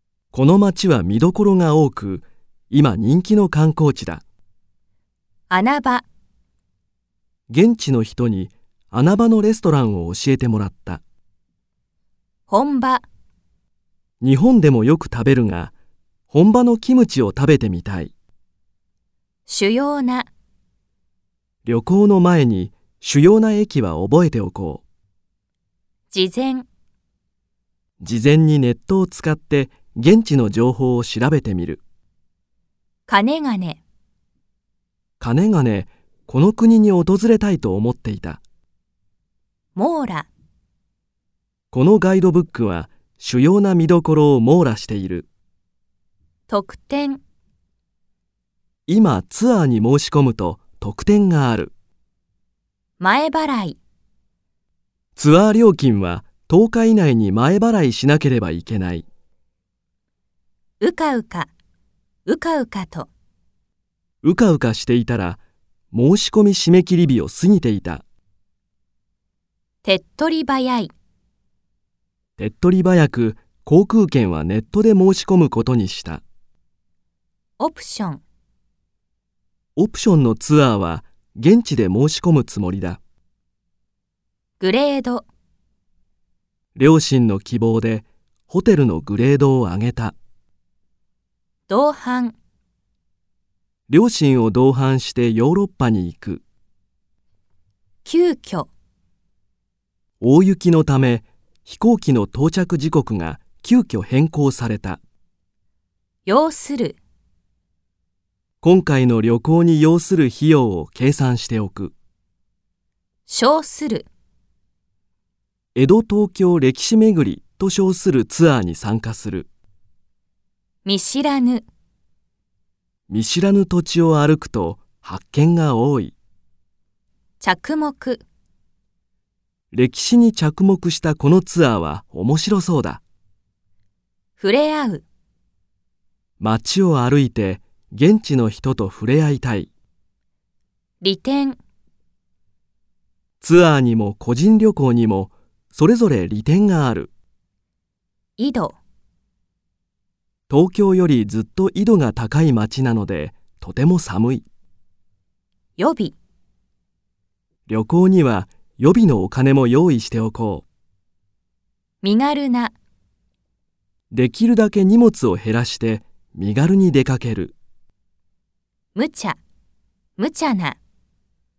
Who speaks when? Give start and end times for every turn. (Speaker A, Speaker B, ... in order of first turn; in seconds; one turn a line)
Speaker A: 0.3-4.2
Speaker B: 5.5-6.0
Speaker A: 7.5-11.0
Speaker B: 12.5-13.0
Speaker A: 14.2-15.7
Speaker A: 16.3-18.1
Speaker B: 19.5-20.3
Speaker A: 21.6-24.8
Speaker B: 26.1-26.6
Speaker A: 28.0-31.8
Speaker B: 33.1-33.8
Speaker A: 35.2-38.4
Speaker B: 39.7-40.3
Speaker A: 41.7-45.3
Speaker B: 46.5-47.2
Speaker A: 48.9-51.7
Speaker B: 53.0-53.8
Speaker A: 55.1-59.0
Speaker B: 60.8-61.5
Speaker B: 62.2-63.1
Speaker A: 64.2-65.4
Speaker A: 65.9-68.0
Speaker B: 69.8-70.9
Speaker A: 72.4-76.2
Speaker B: 77.6-78.2
Speaker A: 79.8-83.0
Speaker B: 84.6-85.2
Speaker A: 86.8-90.2
Speaker B: 91.7-92.3
Speaker A: 93.9-96.4
Speaker B: 98.0-98.7
Speaker A: 100.2-105.0
Speaker B: 106.2-107.0
Speaker A: 108.6-111.9
Speaker B: 113.3-114.1
Speaker A: 115.7-119.5
Speaker B: 120.8-121.7
Speaker A: 123.1-126.1
Speaker B: 127.4-128.2
Speaker A: 129.7-133.0
Speaker B: 134.4-135.0
Speaker A: 136.4-139.7
Speaker B: 141.0-141.6
Speaker A: 143.4-147.1
Speaker B: 148.4-148.8
Speaker A: 150.5-154.4
Speaker B: 155.8-156.1
Speaker A: 157.7-160.6
Speaker B: 162.0-162.7
Speaker A: 164.1-167.5
Speaker B: 168.9-169.4
Speaker B: 170.2-170.8